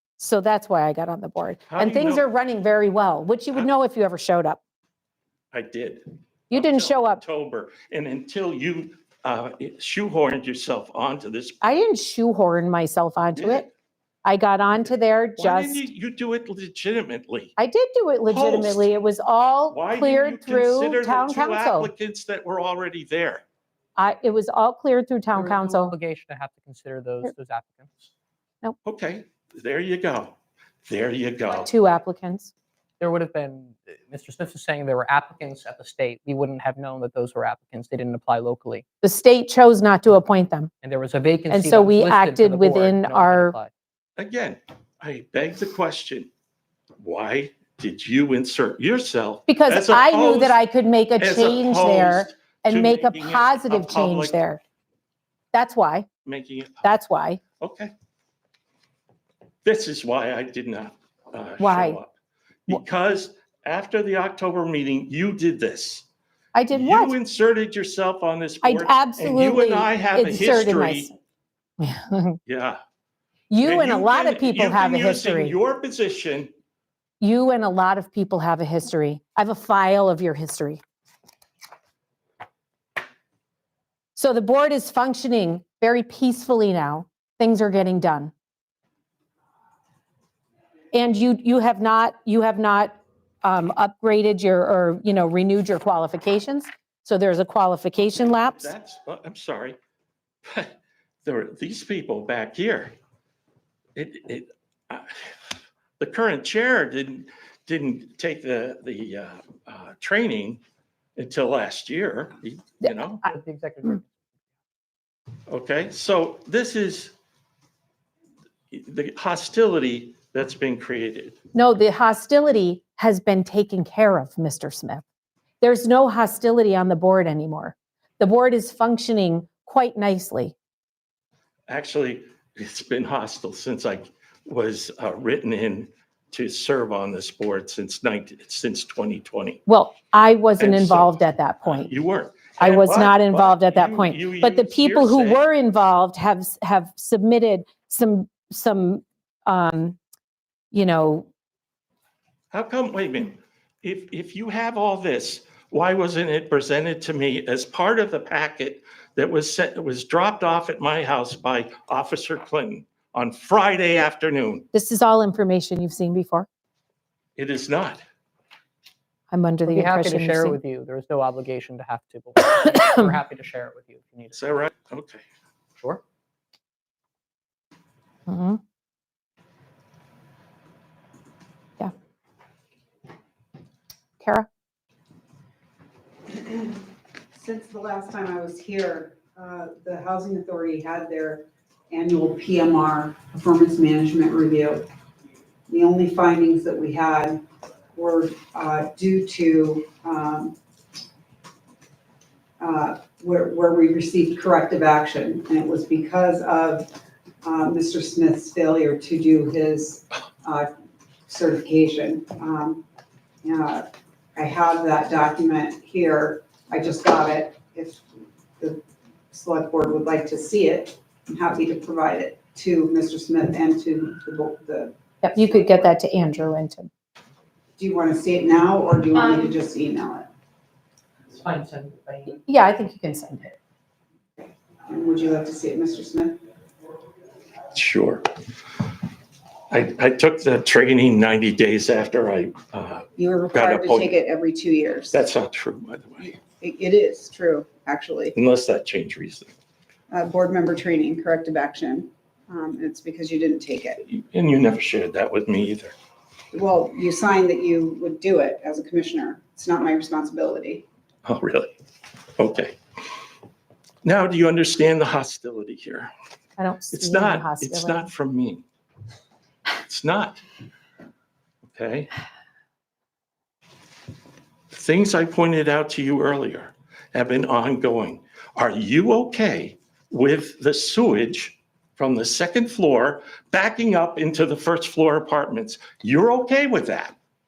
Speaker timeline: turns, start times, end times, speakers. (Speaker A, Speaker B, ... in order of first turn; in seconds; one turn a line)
Speaker A: 0.2-4.6
Speaker B: 1.7-2.2
Speaker B: 5.5-11.6
Speaker A: 6.5-7.2
Speaker A: 11.6-13.7
Speaker B: 13.3-13.7
Speaker A: 14.2-15.8
Speaker B: 15.4-17.5
Speaker A: 17.6-21.9
Speaker B: 18.3-18.9
Speaker B: 19.7-23.4
Speaker A: 24.0-25.9
Speaker C: 25.3-28.1
Speaker B: 28.8-31.7
Speaker A: 31.5-32.5
Speaker C: 33.0-38.8
Speaker A: 39.0-40.7
Speaker C: 40.8-43.7
Speaker A: 41.5-43.5
Speaker B: 44.2-46.3
Speaker B: 47.0-50.6
Speaker A: 49.5-54.6
Speaker B: 51.2-54.4
Speaker A: 55.5-56.1
Speaker B: 56.2-56.9
Speaker A: 56.8-57.4
Speaker B: 57.6-57.9
Speaker B: 59.6-62.1
Speaker A: 61.6-62.0
Speaker B: 62.7-66.0
Speaker A: 66.5-67.1
Speaker B: 66.7-71.1
Speaker A: 68.6-71.1
Speaker A: 71.8-72.4
Speaker B: 72.5-72.8
Speaker A: 73.5-75.5
Speaker B: 73.6-76.5
Speaker A: 77.2-80.8
Speaker A: 84.1-88.3
Speaker A: 90.9-98.7
Speaker B: 98.1-99.8
Speaker B: 100.4-102.9
Speaker B: 103.9-110.6
Speaker B: 111.2-113.2
Speaker C: 113.2-114.2
Speaker B: 115.5-117.1
Speaker B: 118.7-121.4
Speaker A: 121.5-125.0
Speaker A: 125.6-130.5
Speaker B: 131.7-139.6
Speaker A: 139.7-141.9
Speaker B: 140.6-145.5
Speaker A: 142.6-150.0
Speaker A: 150.7-151.3
Speaker B: 152.5-164.7
Speaker A: 164.7-166.5
Speaker B: 167.3-168.0
Speaker A: 169.3-170.6
Speaker C: 169.7-174.5
Speaker A: 172.4-173.1
Speaker B: 174.3-175.2
Speaker A: 178.3-178.6
Speaker A: 184.2-184.5
Speaker D: 186.3-194.9
Speaker D: 195.7-197.4
Speaker D: 197.9-200.5
Speaker D: 202.6-206.9
Speaker D: 207.4-210.7
Speaker D: 211.3-212.8
Speaker D: 213.4-218.0
Speaker D: 219.3-225.5
Speaker A: 225.2-226.9
Speaker D: 227.8-230.3
Speaker C: 231.3-232.4
Speaker A: 232.4-233.5
Speaker D: 234.4-236.4
Speaker B: 237.7-238.3
Speaker B: 239.7-244.1
Speaker D: 243.2-245.2
Speaker B: 245.1-246.4
Speaker D: 246.4-248.3
Speaker B: 248.3-249.5
Speaker D: 250.1-254.0
Speaker B: 254.0-255.9
Speaker D: 256.5-260.9
Speaker B: 261.2-261.7
Speaker B: 262.4-262.8
Speaker B: 264.0-266.1
Speaker A: 266.6-268.1
Speaker B: 266.9-268.6
Speaker B: 269.8-270.4
Speaker B: 271.7-272.1
Speaker B: 274.7-287.1